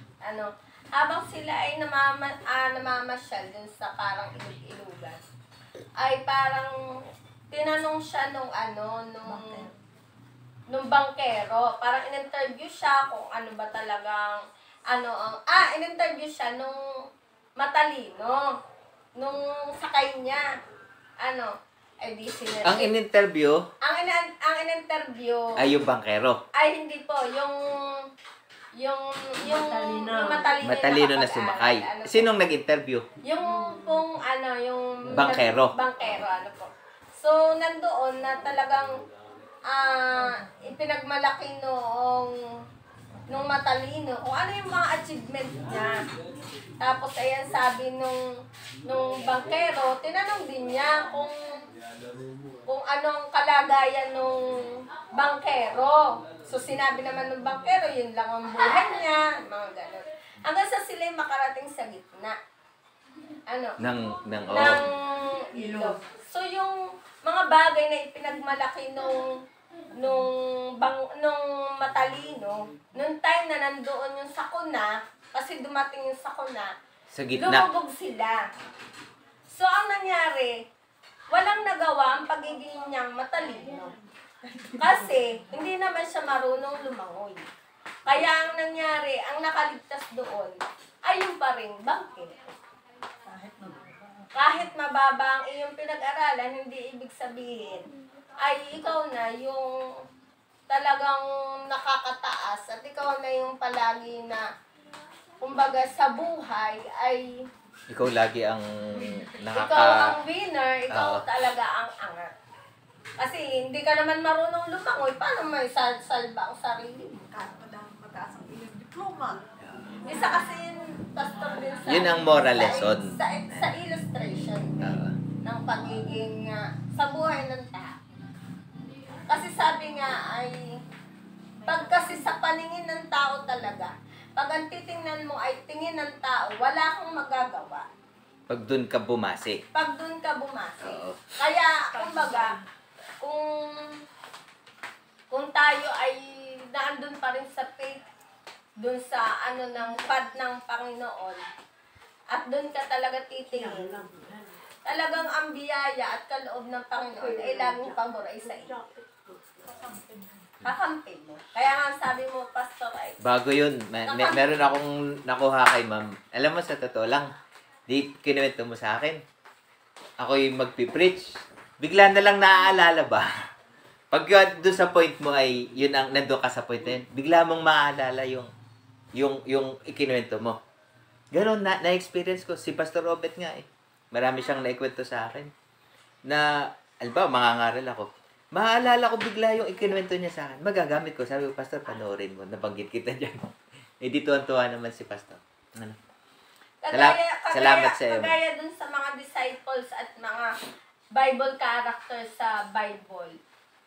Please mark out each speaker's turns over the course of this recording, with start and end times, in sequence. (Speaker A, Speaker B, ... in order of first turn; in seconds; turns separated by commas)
Speaker A: 0.2-5.2, Speaker A: 6.0-9.6, Speaker B: 9.2-9.8, Speaker A: 10.7-18.6, Speaker A: 19.2-20.6, Speaker A: 21.2-22.9, Speaker C: 22.6-23.6, Speaker A: 23.8-25.7, Speaker C: 25.6-26.4, Speaker A: 26.5-28.1, Speaker A: 28.8-32.3, Speaker B: 29.4-30.5, Speaker C: 30.6-33.1, Speaker A: 33.2-39.0, Speaker B: 33.5-33.9, Speaker C: 35.1-36.2, Speaker A: 39.7-42.6, Speaker A: 43.3-46.0, Speaker A: 46.8-51.6, Speaker A: 52.7-62.4, Speaker A: 63.5-63.8, Speaker C: 63.8-64.9, Speaker A: 64.5-69.4, Speaker B: 65.6-66.0, Speaker A: 69.9-76.7, Speaker C: 77.1-77.7, Speaker A: 77.3-78.5, Speaker A: 79.5-80.6, Speaker A: 81.3-83.9, Speaker B: 84.6-84.9, Speaker A: 84.8-87.5, Speaker A: 88.0-92.5, Speaker B: 93.3-94.3, Speaker A: 94.3-97.9, Speaker A: 98.4-100.0, Speaker A: 100.7-104.5, Speaker A: 105.4-107.5, Speaker C: 107.9-110.1, Speaker A: 109.5-112.3, Speaker C: 110.9-111.2, Speaker A: 113.2-117.2, Speaker B: 117.2-119.4, Speaker C: 119.6-119.9, Speaker B: 120.0-120.5, Speaker A: 120.0-128.0, Speaker C: 121.9-123.8, Speaker C: 124.8-125.2, Speaker A: 129.3-130.8, Speaker B: 131.6-132.3, Speaker A: 131.7-137.9, Speaker C: 138.5-139.6, Speaker A: 139.7-142.6, Speaker C: 140.8-141.2, Speaker B: 141.9-142.6, Speaker A: 143.2-144.0, Speaker A: 145.3-148.0, Speaker A: 148.8-151.4, Speaker A: 152.3-154.0, Speaker B: 153.5-154.5, Speaker A: 154.8-158.7, Speaker B: 157.0-160.6, Speaker A: 160.6-163.2, Speaker C: 163.2-167.3, Speaker A: 164.1-164.5, Speaker C: 167.9-169.2, Speaker C: 170.2-173.3, Speaker C: 174.1-178.5, Speaker C: 179.2-180.6, Speaker C: 181.3-185.5, Speaker C: 186.3-193.4, Speaker C: 194.0-196.0, Speaker A: 196.8-200.6, Speaker C: 196.9-198.3, Speaker A: 201.1-203.4